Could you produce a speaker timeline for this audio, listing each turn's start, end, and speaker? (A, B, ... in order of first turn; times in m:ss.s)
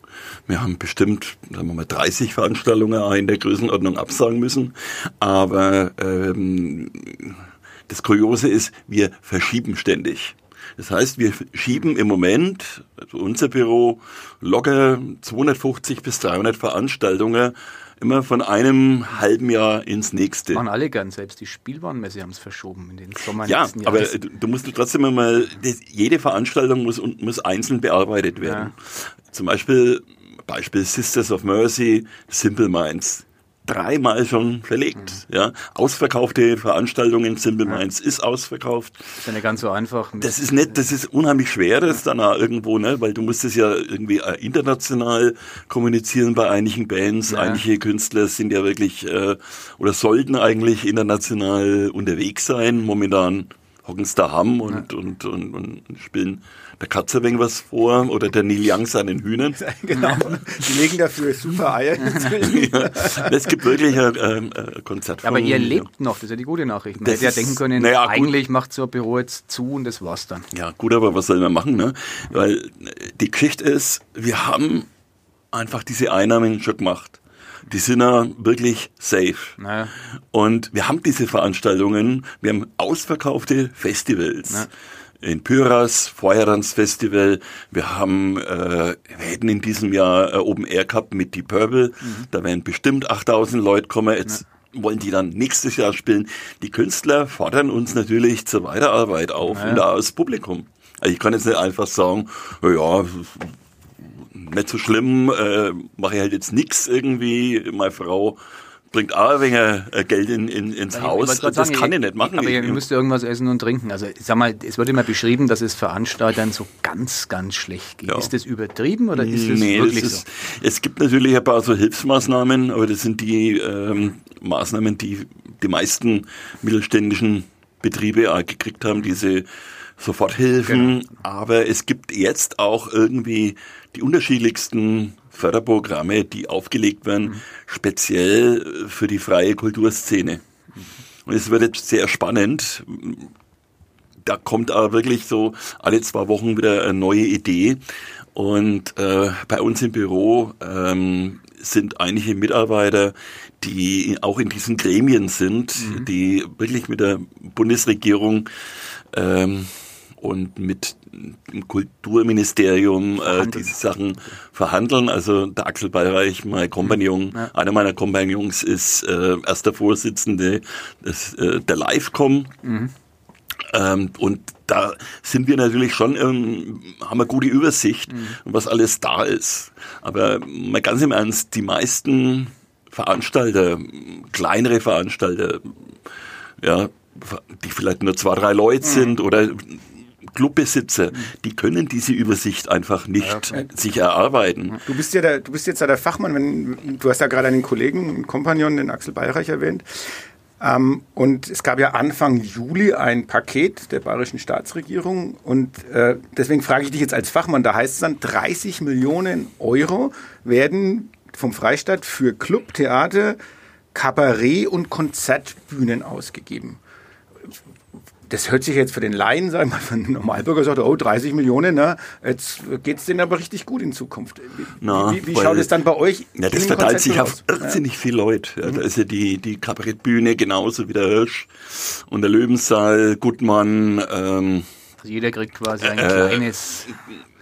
0:00.5-0:20.6 A
0:20.5-0:24.1 B
0:23.4-0:39.2 A
0:28.4-0:28.7 B
0:39.2-0:40.4 B
0:40.2-0:59.6 A
0:47.3-0:47.6 B
0:59.6-1:03.5 C
1:02.4-1:05.9 A
1:05.2-1:10.5 B
1:07.0-1:08.3 A
1:10.5-1:14.9 A
1:15.5-1:19.6 A
1:19.6-1:19.9 B
1:20.3-1:24.7 A
1:25.2-1:48.4 A
1:39.5-1:39.8 B
1:48.9-1:52.8 A
1:50.9-2:00.2 B
1:58.0-1:58.3 A
1:59.1-2:20.4 A
2:10.7-2:11.0 B
2:21.2-2:23.3 A
2:24.2-2:27.8 A
2:28.3-2:38.5 A
2:35.8-2:36.0 B
2:39.1-2:52.5 A
2:43.2-2:43.7 B
2:46.8-2:47.5 B
2:52.6-2:52.9 B
2:53.7-3:05.8 A
3:06.6-3:14.8 A
3:08.8-3:09.2 C
3:13.2-3:13.5 B
3:14.8-3:33.4 C
3:33.9-3:36.8 C
3:38.3-3:47.8 C
3:44.8-3:45.7 A
3:46.3-3:54.7 A
3:55.0-3:56.9 B
3:55.8-3:56.9 A